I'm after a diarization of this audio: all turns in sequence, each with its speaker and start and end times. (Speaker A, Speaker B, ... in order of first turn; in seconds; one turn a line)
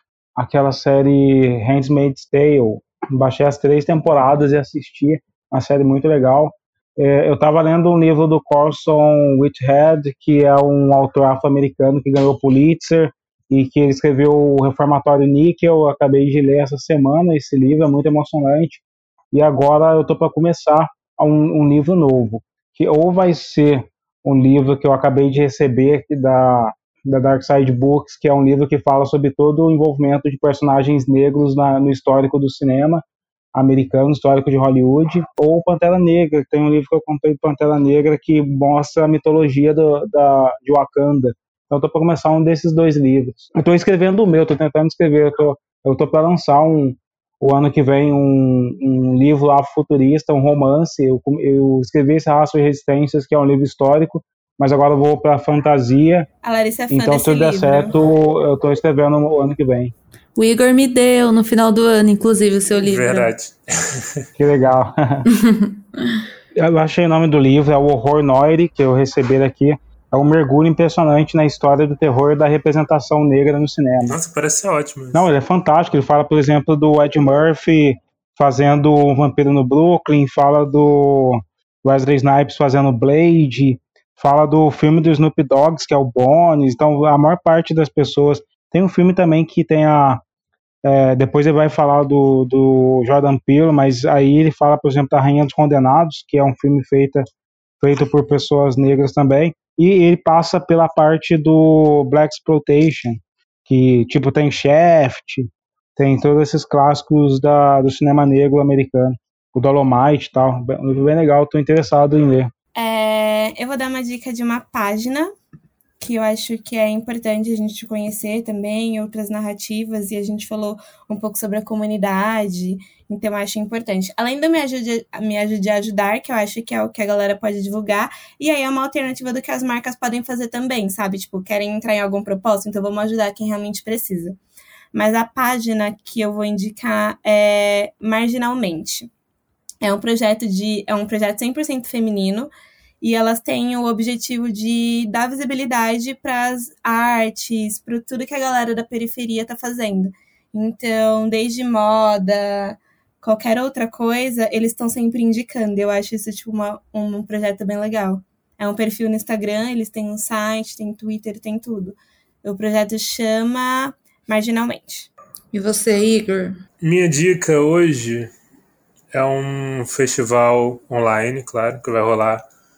Speaker A: 0.3-33.0
Speaker A: 33.5-56.3
Speaker B: 56.4-57.9
Speaker A: 56.9-59.9
Speaker C: 60.4-63.3
Speaker D: 62.8-64.2
Speaker A: 64.4-65.3
Speaker C: 65.3-66.2
Speaker A: 66.5-74.2
Speaker D: 74.0-75.3
Speaker A: 75.1-90.2
Speaker A: 90.8-97.2
Speaker A: 97.8-112.5
Speaker B: 112.8-115.3
Speaker B: 116.0-134.4
Speaker B: 134.9-139.1
Speaker B: 139.8-165.1
Speaker C: 165.5-166.6
Speaker D: 166.8-168.3
Speaker D: 169.1-172.4